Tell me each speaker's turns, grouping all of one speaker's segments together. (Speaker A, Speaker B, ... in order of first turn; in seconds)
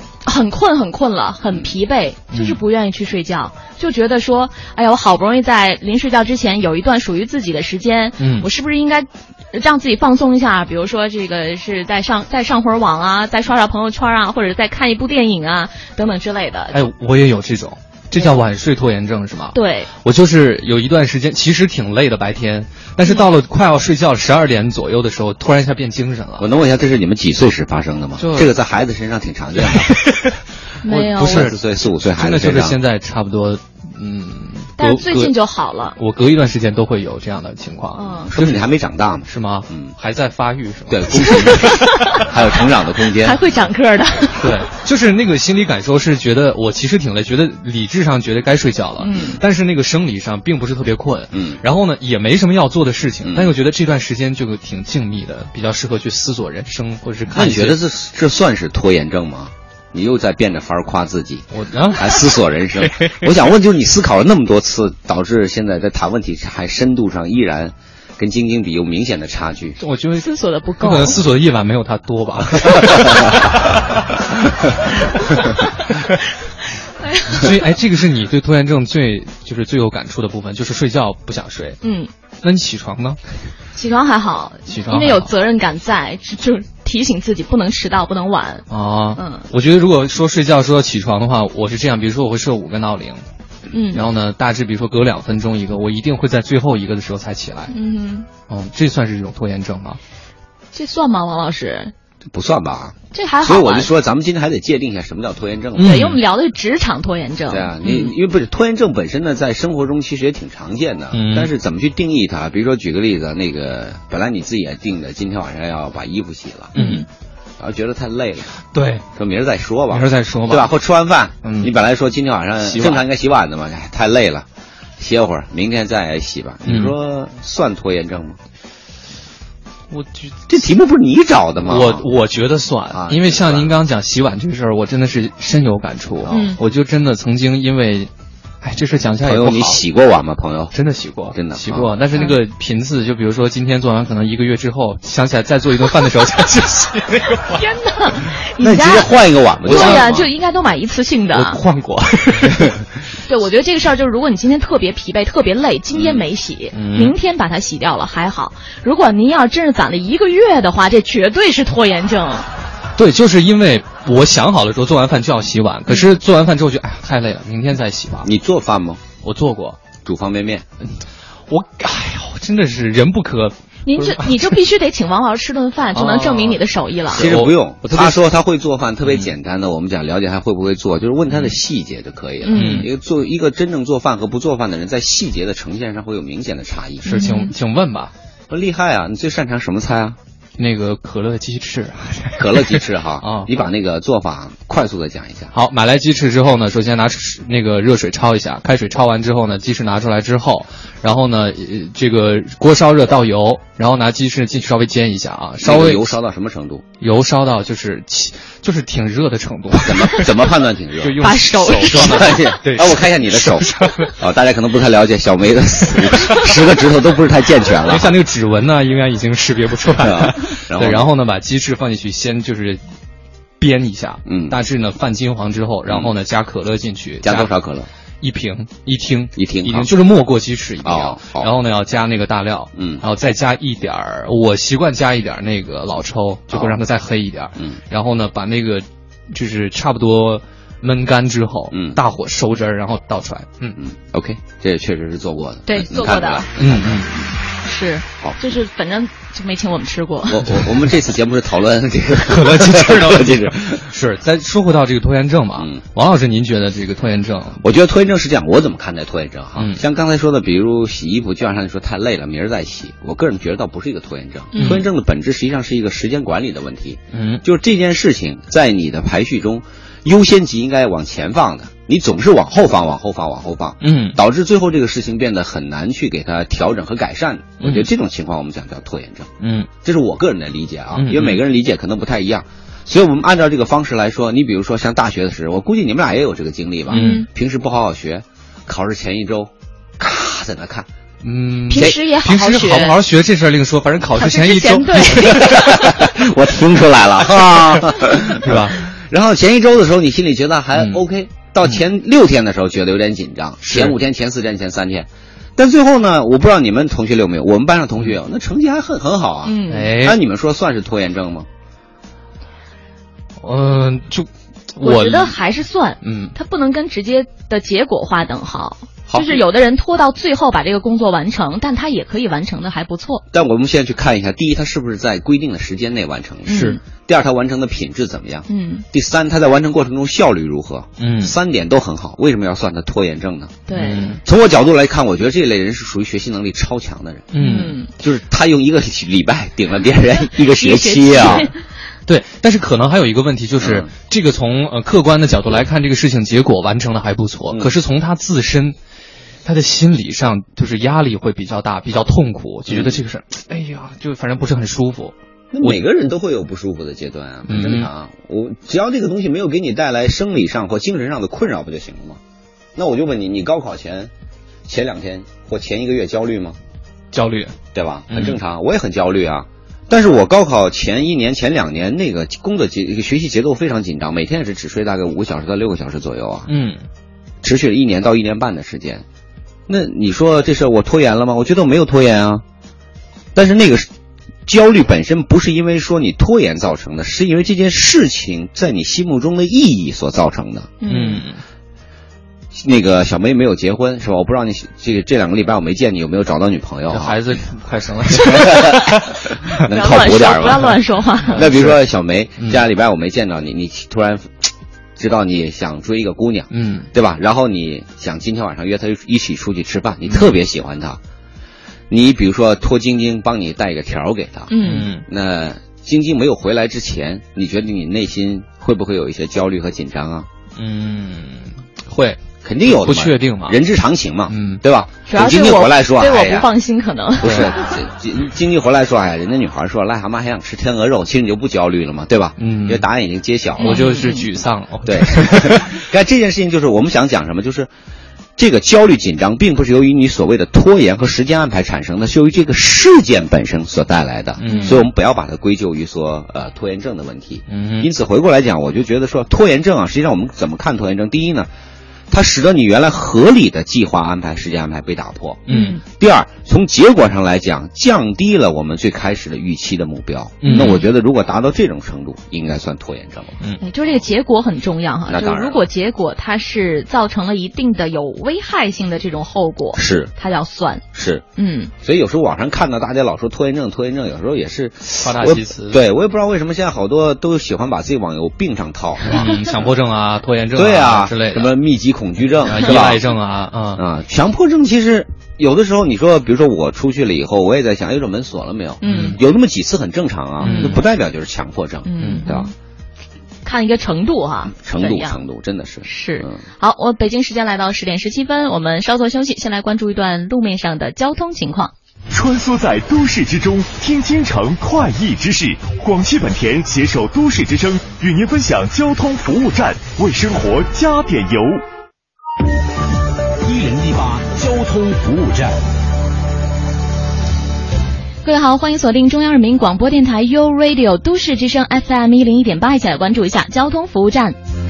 Speaker A: 0.2-16.8, 19.5-19.9, 30.8-31.5, 34.8-36.0, 38.0-38.3, 41.2-42.3, 43.2-44.5, 49.0-49.4, 70.2-71.2, 77.0-77.5, 81.8-82.1, 83.8-88.7, 89.2-89.5, 93.7-94.0, 97.7-98.3, 100.7-101.9, 103.1-103.9, 105.8-108.1, 116.8-117.0, 136.3-136.6, 147.4-149.1, 149.7-151.6, 153.3-162.5, 173.9-177.3, 182.4-182.9, 187.0-187.5, 211.2-212.4, 245.7-246.5, 247.7-250.5, 264.5-264.8, 286.9-287.3, 291.7-293.0, 294.2-295.4, 309.4-309.9, 314.8-323.2, 326.5-326.8, 328.5-328.9, 333.7-334.2, 337.4-337.9, 340.6-341.6, 390.8-391.2, 399.7-401.4, 414.5-414.9, 425.1-427.4, 433.6-434.2, 444.4-444.8, 455.5-455.8, 460.5-460.8, 463.6-470.8, 471.4-471.7, 488.8-489.2, 490.4-490.8, 491.9-492.5, 493.4-495.2, 495.9-501.7, 518.2-524.4
Speaker B: 8.2-8.5, 16.7-26.5, 28.2-28.5, 29.7-35.4, 36.0-38.7, 39.3-41.7, 44.4-57.8, 61.5-63.3, 69.8-74.5, 75.2-75.6, 77.3-81.8, 82.4-83.2, 84.7-85.3, 88.7-93.2, 93.9-97.7, 98.5-100.0, 105.8-106.2, 111.1-111.5, 116.8-117.0, 118.7-119.0, 119.9-120.7, 121.4-121.7, 122.6-123.0, 126.7-126.9, 129.9-130.4, 131.7-138.1, 138.6-139.8, 140.7-147.4, 149.7-150.3, 151.3-152.8, 156.7-157.2, 163.0-168.3, 169.2-169.8, 171.5-174.6, 175.9-178.2, 181.3-181.6, 182.5-182.9, 187.1-188.1, 190.6-193.7, 195.5-206.1, 207.0-210.3, 211.0-214.1, 217.9-222.8, 223.6-227.5, 228.2-243.8, 246.6-247.1, 252.3-257.6, 264.6-264.9, 267.1-267.4, 273.8-274.2, 277.6-277.9, 279.4-279.7, 280.9-281.4, 286.9-287.2, 291.2-295.9, 297.7-298.9, 300.8-301.0, 303.6-304.0, 309.7-310.2, 313.4-315.4, 316.0-316.3, 326.5-326.8, 331.0-331.3, 333.7-334.2, 337.3-337.8, 342.1-348.8, 349.4-355.8, 357.5-357.9, 367.1-367.5, 368.1-368.4, 376.5-376.8, 390.9-391.4, 396.9-399.6, 401.4-401.7, 406.5-406.9, 414.6-415.0, 420.6-423.6, 424.3-424.6, 427.2-427.5, 432.4-432.9, 433.6-435.8, 444.4-444.9, 447.5-447.9, 455.5-455.8, 460.4-460.8, 475.0-475.8, 479.1-481.6, 482.5-483.8, 488.9-489.2, 490.4-490.8, 492.0-492.3
Speaker C: 26.4-30.0, 31.2-32.8, 38.3-39.9, 40.9-43.4, 51.3-51.6, 53.2-53.6, 57.3-69.8, 102.3-106.1, 107.5-116.7, 117.6-118.5, 119.2-124.5, 125.0-128.4, 130.5-132.1, 132.9-133.7, 136.2-136.5, 139.2-140.7, 141.3-142.0, 148.6-150.1, 155.9-156.2, 168.2-169.0, 170.1-170.7, 177.1-187.1, 188.5-190.2, 192.4-195.5, 205.6-206.8, 209.8-211.3, 211.8-218.2, 220.0-221.1, 224.3-224.6, 227.2-227.9, 229.4-229.9, 230.8-231.5, 232.8-233.0, 236.5-236.8, 241.7-242.0, 243.8-247.3, 250.3-253.9, 255.6-255.8, 257.6-279.3, 279.8-290.9, 295.2-311.5, 319.1-319.4, 323.3-333.7, 334.2-337.3, 338.0-341.5, 343.6-343.9, 352.7-353.0, 355.5-362.2, 362.8-364.1, 364.7-366.6, 367.7-376.5, 377.4-379.1, 379.7-382.4, 383.3-383.9, 384.5-390.7, 392.5-397.2, 398.1-400.8, 401.3-411.0, 411.9-414.5, 415.0-420.3, 422.4-426.5, 427.2-433.9, 434.9-437.7, 438.4-451.5, 452.1-463.4, 465.1-465.6, 469.8-470.1, 470.9-471.2, 471.8-479.7, 480.6-483.1, 483.8-492.5, 494.5-496.4
Speaker D: 502.1-511.6
Speaker E: 513.4-515.6